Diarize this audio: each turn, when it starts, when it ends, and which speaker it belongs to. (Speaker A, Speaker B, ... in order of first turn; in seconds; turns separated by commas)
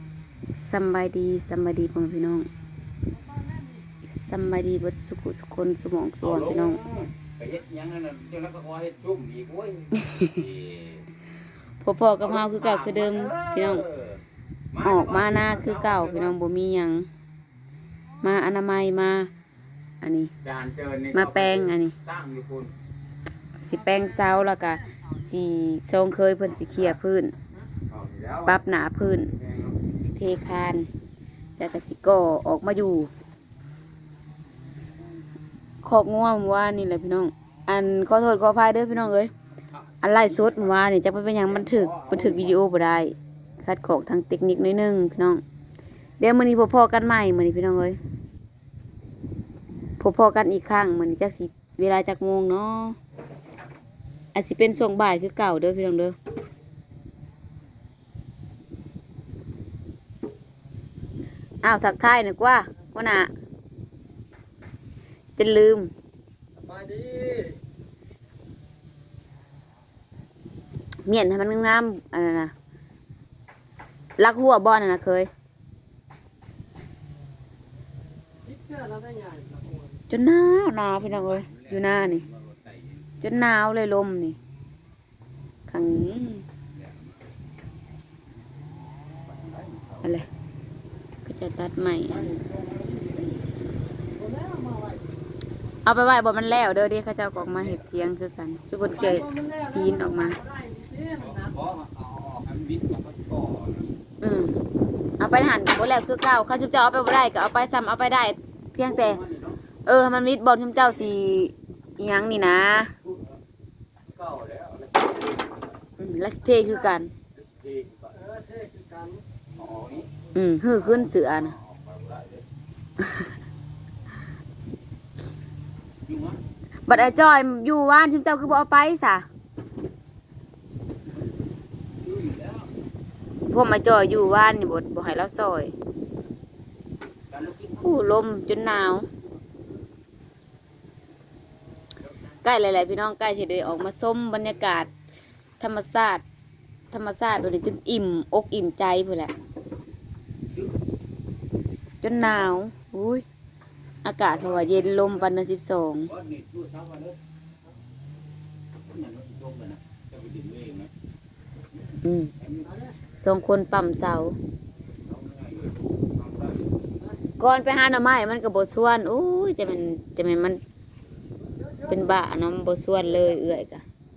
Speaker A: 0.5-2.5, Speaker A: 4.1-6.8, Speaker B: 6.2-11.0, Speaker A: 9.9-10.4, Speaker A: 11.8-13.8, Speaker B: 12.2-14.2, Speaker B: 14.7-16.3, Speaker A: 14.8-17.1, Speaker A: 18.2-19.3, Speaker A: 20.0-20.3, Speaker B: 20.4-22.7, Speaker A: 21.1-22.0, Speaker A: 23.6-27.3, Speaker B: 27.9-28.6, Speaker A: 28.4-29.3, Speaker B: 29.4-29.8, Speaker A: 29.9-30.9, Speaker A: 31.6-33.1, Speaker A: 35.8-39.3, Speaker B: 39.7-40.8, Speaker A: 40.0-45.4, Speaker B: 41.4-42.6, Speaker A: 46.2-48.0, Speaker A: 50.0-53.0, Speaker A: 54.3-56.1, Speaker A: 61.6-63.3, Speaker A: 65.4-65.9, Speaker C: 66.5-67.6, Speaker A: 71.0-72.5, Speaker A: 74.2-75.3, Speaker C: 78.4-80.0, Speaker A: 80.1-82.2, Speaker B: 80.9-83.1, Speaker A: 83.2-84.4, Speaker A: 85.7-86.5, Speaker B: 89.2-90.2, Speaker A: 91.2-92.4, Speaker B: 92.1-93.4, Speaker C: 94.2-95.0, Speaker A: 95.8-100.4, Speaker B: 97.3-98.0, Speaker C: 99.0-101.5, Speaker B: 101.2-103.9, Speaker A: 104.2-104.6, Speaker A: 105.2-109.2, Speaker B: 108.8-109.6, Speaker A: 109.8-112.9, Speaker B: 113.0-113.3, Speaker B: 114.1-115.5, Speaker A: 116.0-117.1, Speaker B: 117.3-118.2, Speaker C: 118.1-119.2, Speaker B: 119.5-122.4, Speaker A: 120.3-121.5, Speaker A: 123.0-123.3, Speaker B: 126.0-126.4, Speaker A: 126.9-129.2, Speaker B: 132.0-132.7, Speaker A: 133.5-135.7, Speaker B: 137.3-138.0, Speaker A: 137.8-139.1, Speaker A: 142.4-144.9, Speaker A: 145.6-146.2, Speaker A: 146.9-149.3, Speaker A: 152.0-153.2, Speaker A: 154.0-156.1, Speaker B: 154.3-155.2, Speaker B: 156.1-157.2, Speaker B: 158.9-160.9, Speaker A: 162.0-162.3, Speaker B: 162.4-162.8, Speaker A: 163.2-164.4, Speaker B: 164.9-166.7, Speaker A: 167.4-170.6, Speaker A: 171.8-173.8